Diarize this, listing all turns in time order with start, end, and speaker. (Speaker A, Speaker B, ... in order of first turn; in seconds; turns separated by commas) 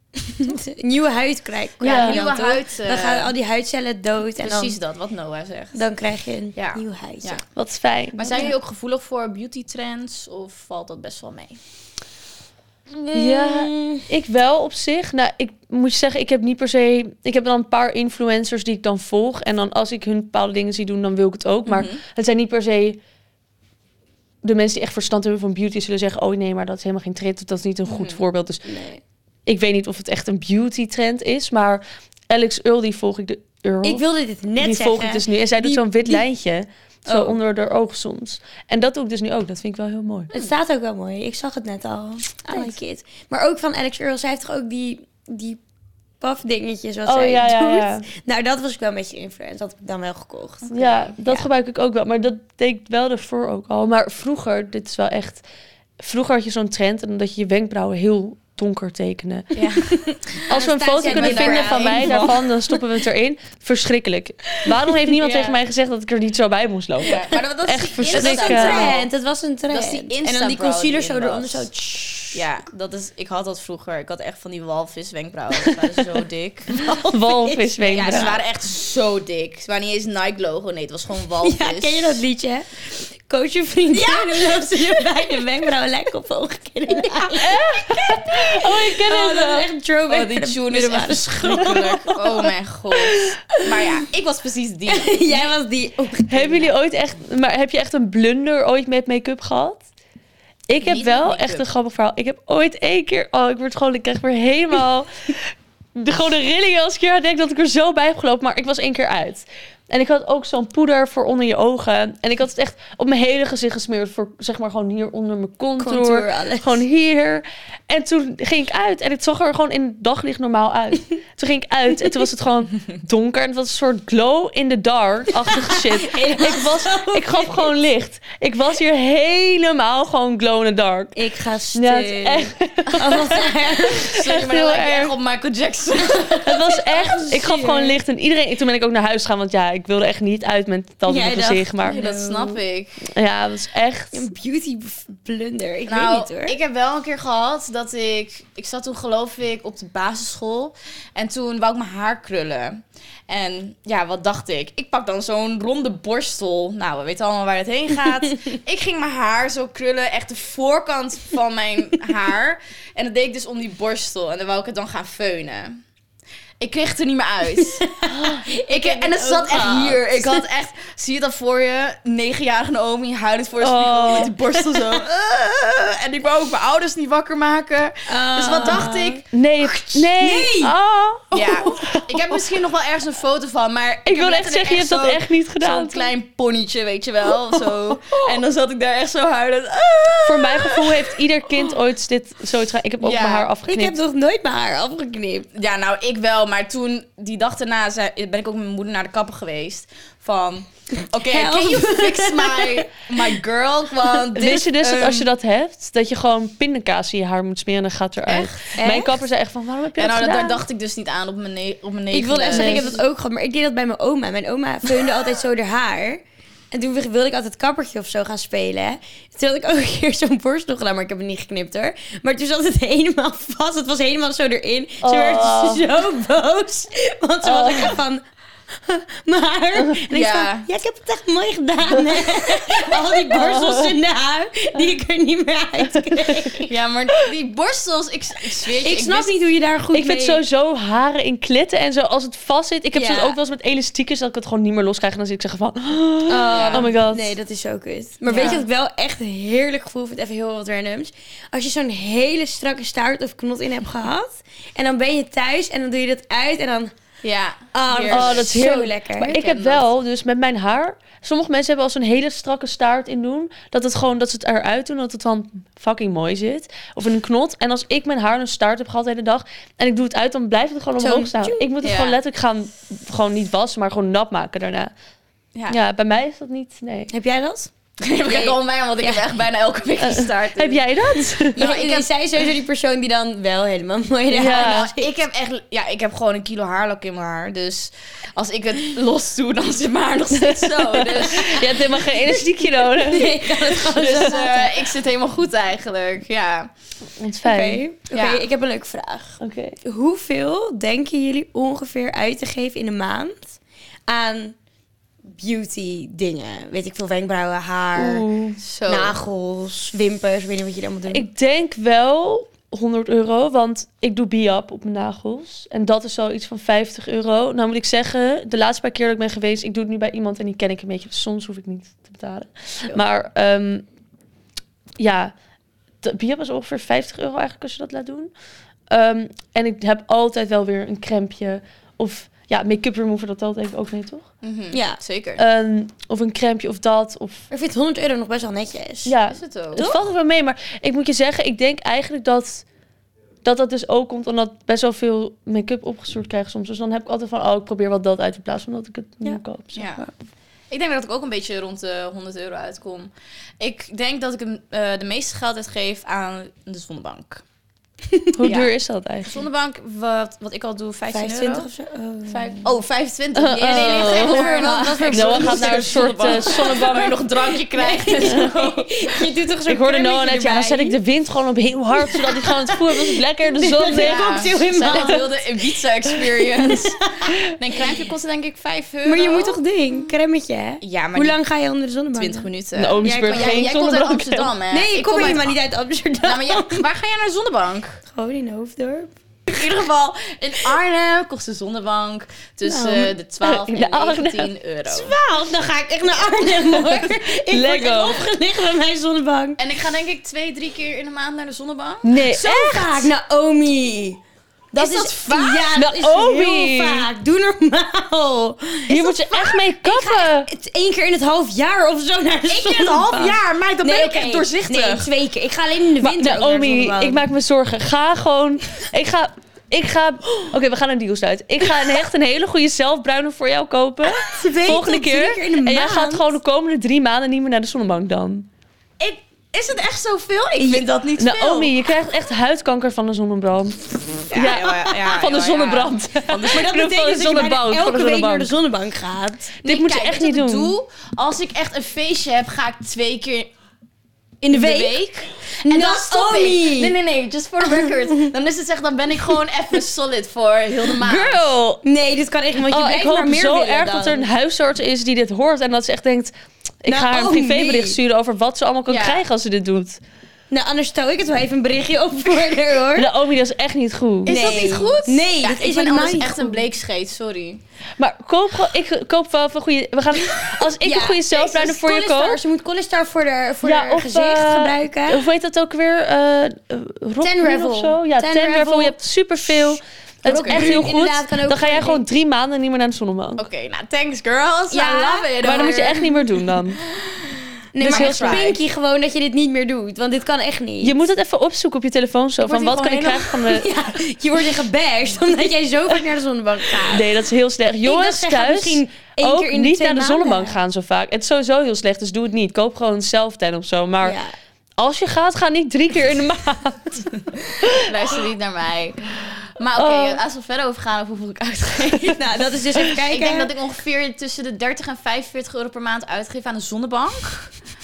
Speaker A: 0.3-4.8, Speaker B: 1.8-3.3, Speaker C: 1.8-2.3, Speaker B: 4.4-5.8, Speaker A: 5.8-7.4, Speaker B: 6.5-7.4, Speaker C: 7.6-8.5, Speaker B: 8.2-11.6, Speaker A: 12.9-14.1, Speaker C: 13.1-23.0, Speaker B: 21.7-22.0, Speaker C: 24.4-28.6, Speaker B: 27.9-28.2, Speaker A: 28.7-29.0, Speaker C: 29.5-34.0, Speaker A: 33.8-36.2, Speaker C: 34.6-40.3, Speaker B: 37.1-37.3, Speaker A: 40.3-45.6, Speaker A: 46.2-51.5, Speaker C: 47.1-48.1, Speaker C: 50.7-55.4, Speaker C: 56.0-59.5, Speaker B: 59.5-62.4, Speaker A: 59.9-62.8, Speaker C: 60.5-69.0, Speaker A: 64.5-65.1, Speaker B: 65.2-65.6, Speaker B: 67.0-69.1, Speaker A: 68.0-72.5, Speaker B: 69.7-71.7, Speaker B: 72.3-76.9, Speaker A: 76.7-78.2, Speaker C: 77.0-78.4, Speaker B: 77.8-82.2, Speaker A: 81.4-92.5, Speaker B: 84.1-84.4, Speaker C: 87.4-89.7, Speaker B: 90.1-95.5, Speaker A: 93.1-94.0, Speaker A: 94.9-96.7, Speaker C: 96.3-99.8, Speaker C: 100.7-131.2, Speaker B: 100.8-101.7, Speaker A: 115.8-116.8, Speaker A: 125.5-127.7, Speaker A: 131.2-134.1, Speaker C: 131.7-135.1, Speaker B: 132.9-136.6, Speaker C: 136.4-142.0, Speaker A: 136.5-138.0, Speaker A: 141.1-142.6, Speaker B: 141.8-143.1, Speaker C: 143.1-144.2, Speaker A: 144.1-146.6, Speaker B: 145.9-165.8, Speaker B: 166.6-167.9, Speaker A: 167.6-170.4, Speaker C: 168.1-168.5, Speaker B: 168.6-179.2, Speaker C: 169.5-169.9, Speaker C: 173.6-174.3, Speaker A: 178.1-180.7, Speaker C: 179.3-182.4, Speaker B: 181.3-191.1, Speaker C: 184.1-186.1, Speaker C: 190.3-194.0, Speaker B: 193.0-193.5, Speaker A: 193.7-195.5, Speaker B: 195.5-205.3, Speaker A: 201.2-203.3, Speaker C: 204.3-210.6, Speaker B: 208.3-208.7, Speaker A: 208.8-209.2, Speaker B: 210.0-213.0, Speaker A: 212.1-228.2, Speaker C: 212.5-213.0, Speaker C: 225.0-225.9, Speaker C: 227.4-228.0, Speaker A: 228.8-236.7, Speaker B: 230.1-230.7, Speaker C: 231.9-234.0, Speaker C: 235.9-236.5, Speaker B: 236.7-239.3, Speaker A: 238.8-240.4, Speaker C: 239.9-247.4, Speaker A: 242.9-243.4, Speaker A: 246.3-256.9, Speaker B: 246.5-246.9, Speaker B: 248.3-248.7, Speaker C: 248.3-248.6, Speaker B: 257.2-258.6, Speaker A: 257.7-259.4, Speaker C: 258.1-274.9, Speaker B: 259.2-259.8, Speaker A: 271.0-271.7, Speaker B: 271.8-272.2, Speaker C: 275.7-277.1, Speaker A: 277.1-277.7, Speaker B: 278.0-280.8, Speaker A: 278.3-279.3, Speaker C: 280.0-281.7, Speaker A: 281.5-285.1, Speaker B: 281.5-282.1, Speaker C: 284.3-284.9, Speaker B: 284.4-291.8, Speaker C: 290.4-294.4, Speaker A: 292.7-294.9, Speaker B: 293.8-296.7, Speaker C: 297.2-297.8, Speaker A: 297.4-304.6, Speaker B: 298.1-298.4, Speaker C: 299.4-299.8, Speaker A: 305.3-308.3, Speaker C: 308.0-308.6, Speaker B: 308.6-309.2, Speaker A: 308.9-311.3, Speaker C: 311.1-323.9, Speaker C: 325.0-325.3, Speaker C: 326.0-328.3, Speaker C: 328.9-334.3, Speaker B: 334.4-335.4, Speaker A: 334.7-335.0, Speaker C: 335.4-337.4, Speaker A: 337.5-339.2, Speaker C: 339.1-342.6, Speaker B: 339.3-339.8, Speaker A: 339.8-340.0, Speaker C: 343.4-350.1, Speaker B: 349.8-350.0, Speaker B: 350.7-357.4, Speaker A: 358.1-358.5, Speaker C: 358.4-359.4, Speaker B: 358.4-358.7, Speaker B: 359.2-361.7, Speaker A: 361.1-362.7, Speaker B: 362.3-369.3, Speaker C: 363.4-367.2, Speaker A: 363.6-366.9, Speaker A: 367.6-371.0, Speaker C: 368.2-368.5, Speaker C: 369.7-375.2, Speaker A: 371.9-375.4, Speaker B: 373.9-379.6, Speaker A: 376.6-377.4, Speaker A: 379.1-382.5, Speaker B: 380.8-381.4, Speaker B: 382.1-385.6, Speaker C: 382.8-384.5, Speaker A: 383.0-383.7, Speaker A: 384.7-386.9, Speaker B: 386.2-388.0, Speaker A: 388.1-389.1, Speaker B: 389.5-395.1, Speaker A: 392.7-393.2, Speaker C: 393.4-394.5, Speaker A: 394.9-399.6, Speaker C: 396.8-398.3, Speaker B: 399.6-402.2, Speaker C: 402.0-403.1, Speaker A: 402.3-404.2, Speaker A: 404.7-417.2, Speaker B: 404.7-405.8, Speaker C: 405.8-407.1, Speaker C: 408.9-410.5, Speaker B: 412.5-415.1, Speaker C: 416.0-428.5, Speaker A: 421.7-422.0, Speaker A: 424.2-426.3, Speaker B: 429.0-431.7, Speaker A: 430.6-430.9, Speaker C: 431.2-438.6, Speaker B: 434.3-436.6, Speaker A: 436.3-439.6, Speaker C: 439.6-440.8, Speaker B: 439.6-443.5, Speaker A: 444.4-445.1, Speaker B: 444.5-451.5, Speaker A: 445.6-447.0, Speaker A: 447.6-448.3, Speaker C: 451.0-451.8, Speaker A: 451.8-454.3, Speaker C: 452.6-456.3, Speaker C: 456.8-460.0, Speaker A: 456.9-458.0, Speaker B: 458.9-459.2, Speaker A: 460.5-463.1, Speaker C: 462.9-464.5, Speaker B: 464.2-467.6, Speaker A: 464.3-466.6, Speaker C: 468.0-472.4, Speaker A: 470.8-475.3, Speaker C: 473.6-483.4, Speaker A: 477.2-479.0, Speaker B: 480.2-480.8, Speaker A: 480.2-482.0, Speaker B: 483.4-486.1, Speaker A: 484.7-486.0, Speaker C: 485.4-486.8, Speaker A: 487.7-491.0, Speaker C: 487.8-488.6, Speaker B: 487.8-488.6, Speaker C: 490.8-493.7, Speaker A: 492.4-497.1, Speaker C: 496.8-504.2, Speaker A: 497.8-500.6, Speaker A: 504.0-504.3, Speaker C: 504.8-508.0, Speaker B: 507.8-517.5, Speaker C: 509.8-510.2, Speaker A: 512.0-513.5